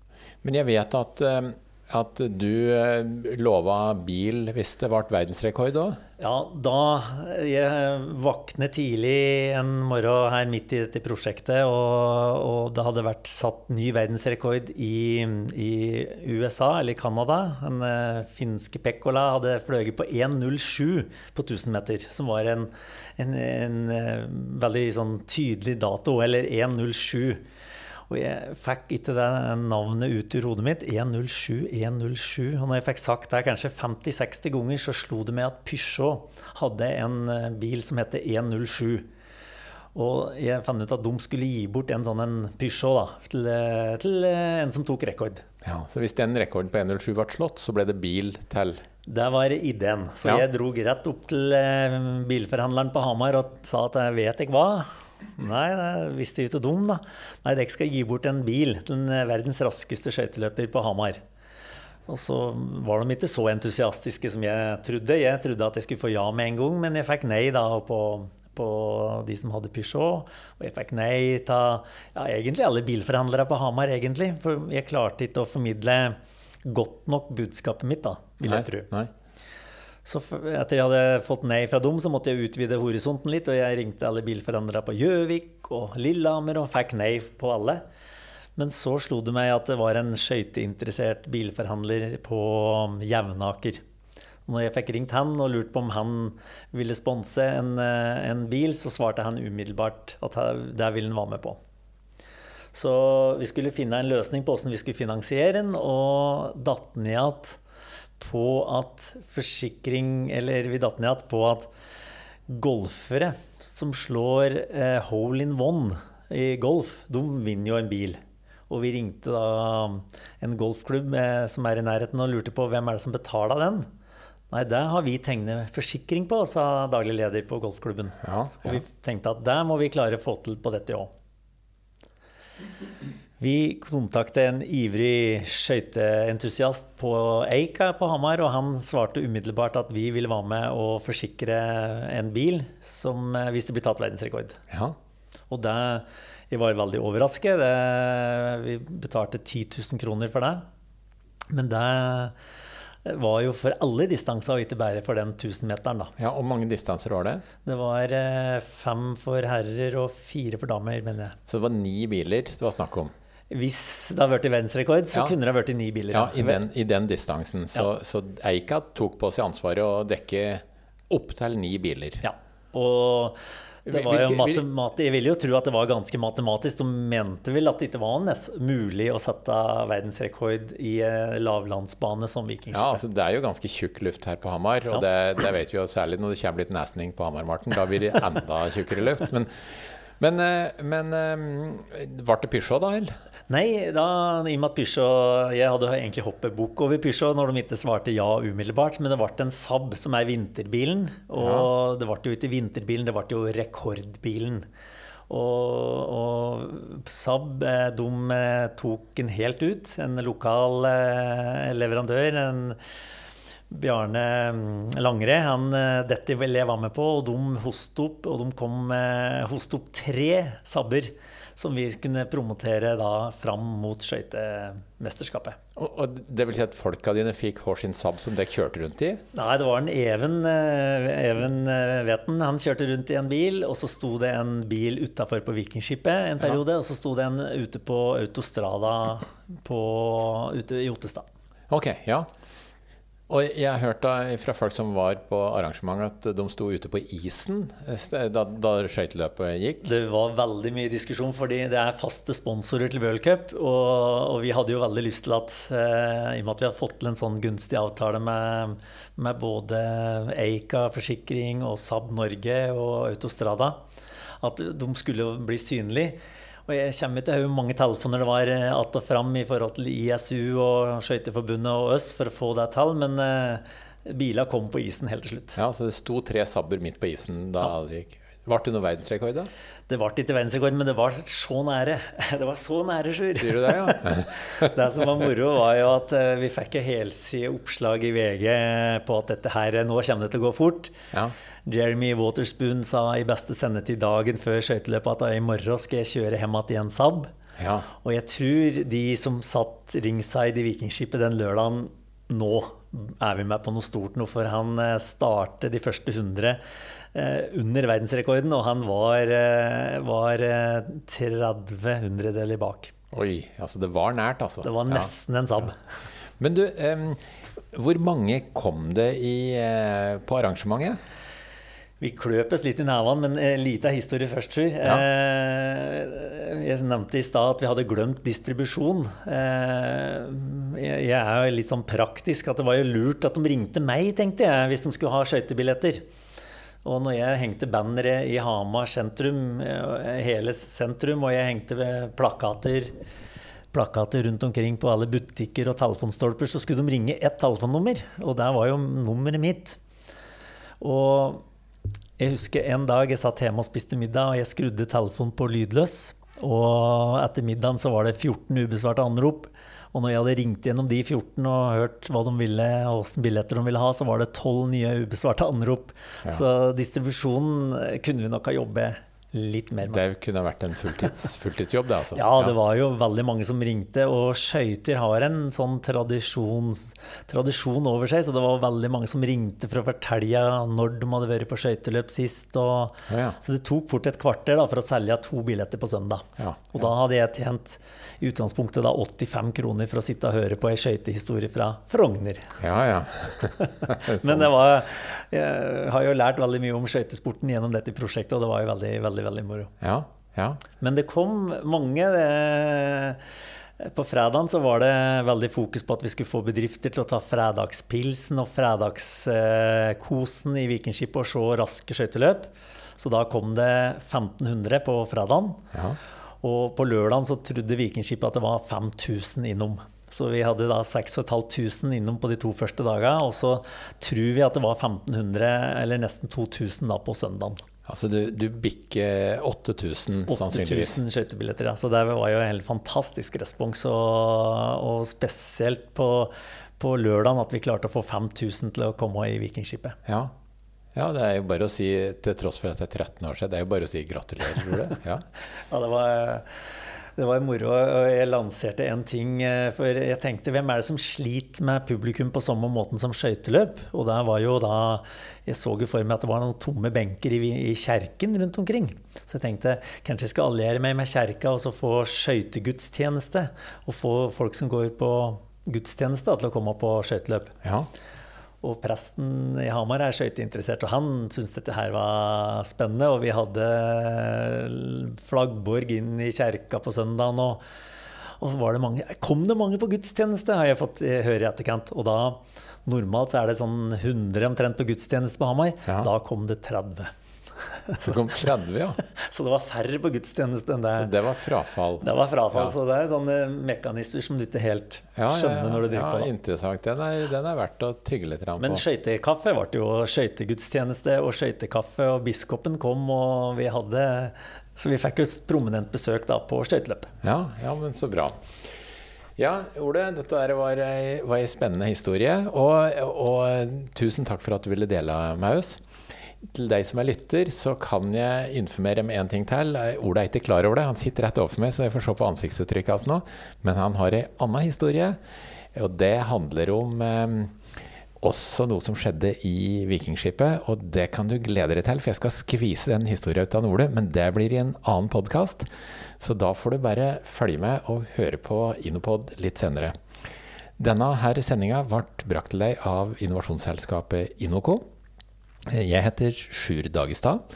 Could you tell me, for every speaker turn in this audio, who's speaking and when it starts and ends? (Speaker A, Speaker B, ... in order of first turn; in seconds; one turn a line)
Speaker A: 0.4-6.0
Speaker B: 6.2-27.4
Speaker B: 28.1-39.1
Speaker B: 40.0-45.5
Speaker A: 45.6-48.8
Speaker B: 49.1-61.2
Speaker B: 62.1-78.9
Speaker A: 78.5-79.1
Speaker B: 80.0-87.8
Speaker B: 88.6-93.8
Speaker B: 94.5-101.6
Speaker B: 102.7-107.6
Speaker B: 108.2-111.7
Speaker B: 112.5-123.9
Speaker B: 124.5-131.1
Speaker A: 128.2-128.8
Speaker B: 133.4-144.6
Speaker A: 144.7-145.0
Speaker B: 145.5-150.6
Speaker B: 151.5-152.3
Speaker B: 153.1-156.1
Speaker A: 156.2-157.4
Speaker B: 157.7-161.4
Speaker A: 161.5-163.1
Speaker B: 163.5-166.6
Speaker A: 166.1-172.2
Speaker B: 172.2-183.0
Speaker A: 173.9-174.7
Speaker A: 182.7-193.1
Speaker B: 193.5-204.7
Speaker A: 201.4-201.7
Speaker B: 205.3-212.8
Speaker B: 213.7-225.6
Speaker A: 225.8-229.2
Speaker B: 229.3-241.3
Speaker A: 241.7-242.3
Speaker A: 243.3-249.9
Speaker B: 249.8-263.8
Speaker B: 264.4-275.6
Speaker A: 275.6-279.5
Speaker B: 279.9-291.0
Speaker A: 283.4-284.7
Speaker B: 291.7-297.3
Speaker A: 297.6-297.9
Speaker B: 298.0-306.6
Speaker B: 307.1-312.9
Speaker A: 313.1-315.1
Speaker B: 314.6-315.8
Speaker A: 316.4-317.2
Speaker A: 317.7-321.0
Speaker B: 322.0-336.0
Speaker B: 336.8-342.9
Speaker B: 343.7-349.8
Speaker B: 350.8-351.4
Speaker B: 352.2-370.0
Speaker A: 369.8-372.6
Speaker B: 372.1-392.6
Speaker A: 383.1-383.4
Speaker A: 386.4-386.8
Speaker A: 392.6-394.5
Speaker B: 393.6-399.7
Speaker A: 399.8-400.6
Speaker B: 400.8-403.2
Speaker B: 403.8-415.7
Speaker B: 416.4-427.6
Speaker A: 427.9-431.0
Speaker B: 430.3-440.0
Speaker A: 440.1-440.3
Speaker A: 440.9-445.2
Speaker B: 445.7-446.5
Speaker B: 447.2-467.6
Speaker A: 467.6-467.9
Speaker B: 468.6-477.6
Speaker B: 478.4-487.1
Speaker B: 487.8-488.2
Speaker A: 488.0-489.0
Speaker B: 489.0-491.1
Speaker A: 490.9-492.7
Speaker B: 492.0-496.3
Speaker A: 495.2-498.8
Speaker B: 498.6-507.1
Speaker A: 507.2-508.5
Speaker A: 509.4-515.8
Speaker A: 516.4-525.2
Speaker A: 525.7-527.6
Speaker A: 528.2-535.7
Speaker A: 536.2-540.0
Speaker A: 540.8-544.9
Speaker A: 545.7-547.4